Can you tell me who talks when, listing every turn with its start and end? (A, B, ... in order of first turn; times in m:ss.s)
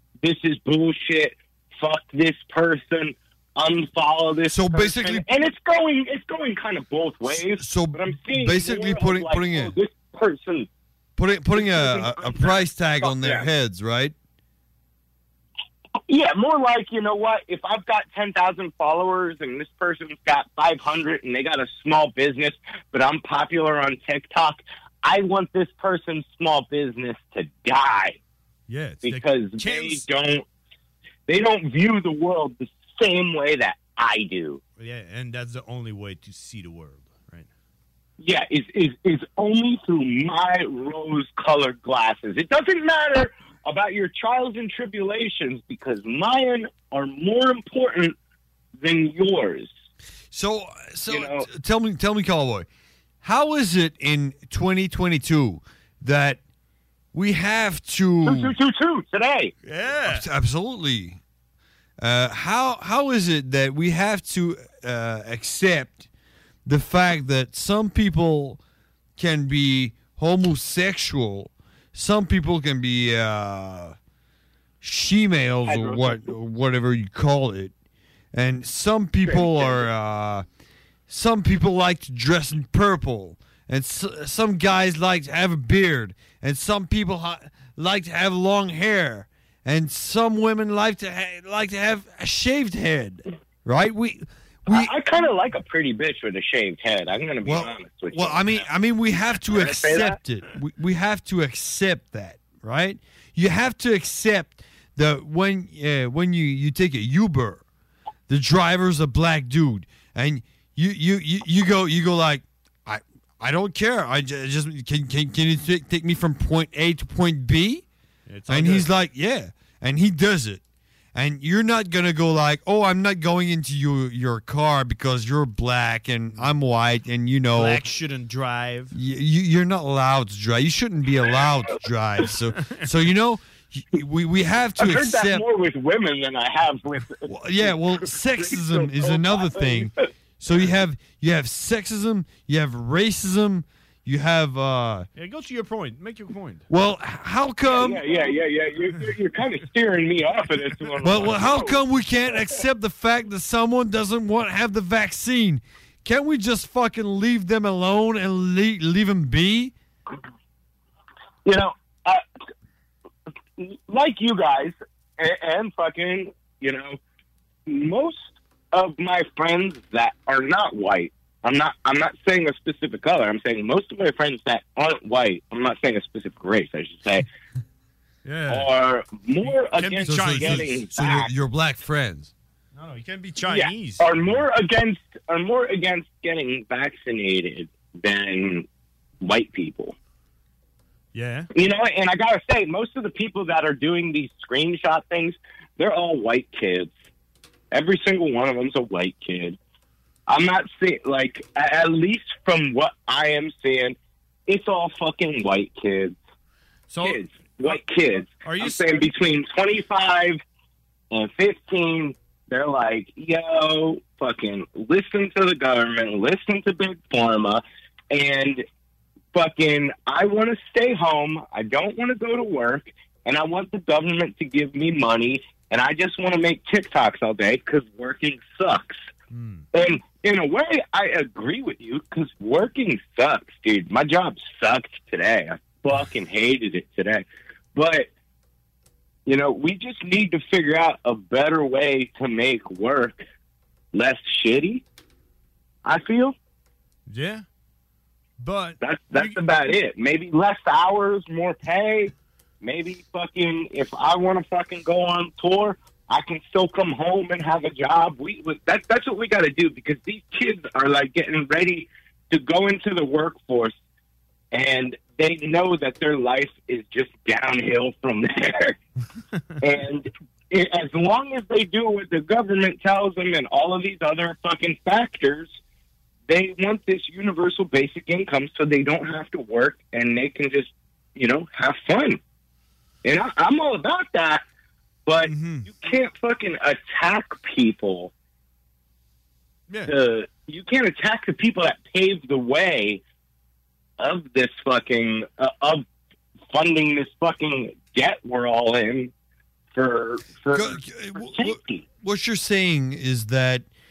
0:00.2-0:10.7 A
0:04.5-0:05.2 B
0:07.3-0:09.7 B
0:11.2-0:14.1 B
0:11.5-0:13.5 A
0:16.1-0:28.2 A
0:28.7-0:30.0 C
0:29.0-0:30.4 A
0:31.3-0:34.6 A
0:34.8-0:37.5 C
0:38.2-0:48.1 A
0:48.8-0:49.7 A
0:50.3-0:52.7 B
0:51.1-0:51.4 A
0:53.2-0:56.4 B
0:57.1-0:58.5 B
0:58.2-0:59.5 A
0:59.6-1:00.2 C
1:00.0-1:01.2 B
1:02.0-1:06.0 B
1:06.6-1:08.6 B
1:09.2-1:14.0 B
1:14.8-1:17.7 B
1:15.6-1:16.2 A
1:18.3-1:20.4 B
1:19.2-1:19.8 A
1:21.1-1:34.9 B
1:34.7-1:38.4 A
1:37.4-1:47.6 B
1:39.3-1:40.2 A
1:48.3-1:57.8 B
1:58.3-1:58.9 C
1:58.5-2:00.6 B
2:01.1-2:07.8 B
2:07.5-2:08.9 C
2:08.9-2:15.4 B
2:14.8-2:19.9 A
2:17.2-2:25.1 B
2:25.2-2:26.6 C
2:26.7-2:28.0 B
2:27.6-2:31.8 A
2:30.8-2:31.5 C
2:31.0-2:39.7 B
2:41.4-2:42.2 A
2:43.6-2:47.0 A
2:47.7-2:57.3 A
2:58.2-2:58.7 C
2:58.5-3:01.3 A
2:59.4-3:00.8 C
3:00.0-3:02.3 B
3:02.7-3:04.4 C
3:03.5-3:08.6 A
3:09.2-3:09.9 A
3:11.1-3:11.5 C
3:11.5-3:16.9 A
3:17.7-3:19.6 A
3:20.3-3:24.0 A
3:24.5-3:26.2 A
3:26.9-3:29.1 C
3:27.0-3:30.4 A
3:31.1-3:38.6 A
3:39.3-3:49.0 A
3:49.3-3:49.6 C
3:49.7-3:58.1 A
3:59.3-4:03.2 A
4:03.9-4:04.8 A
4:05.8-4:06.3 A
4:07.1-4:07.4 C
4:08.4-4:09.4 C
4:08.8-4:23.7 A
4:24.5-4:28.8 A
4:29.3-4:29.6 C
4:29.6-4:35.5 A
4:36.3-4:42.2 A
4:43.0-4:44.4 A
4:45.1-4:48.1 A
4:45.2-4:45.7 C
4:49.7-4:49.9 C
4:49.9-4:53.0 A
4:54.0-4:55.8 A
4:56.5-4:59.1 A
4:59.7-5:01.8 A
5:00.5-5:03.6 B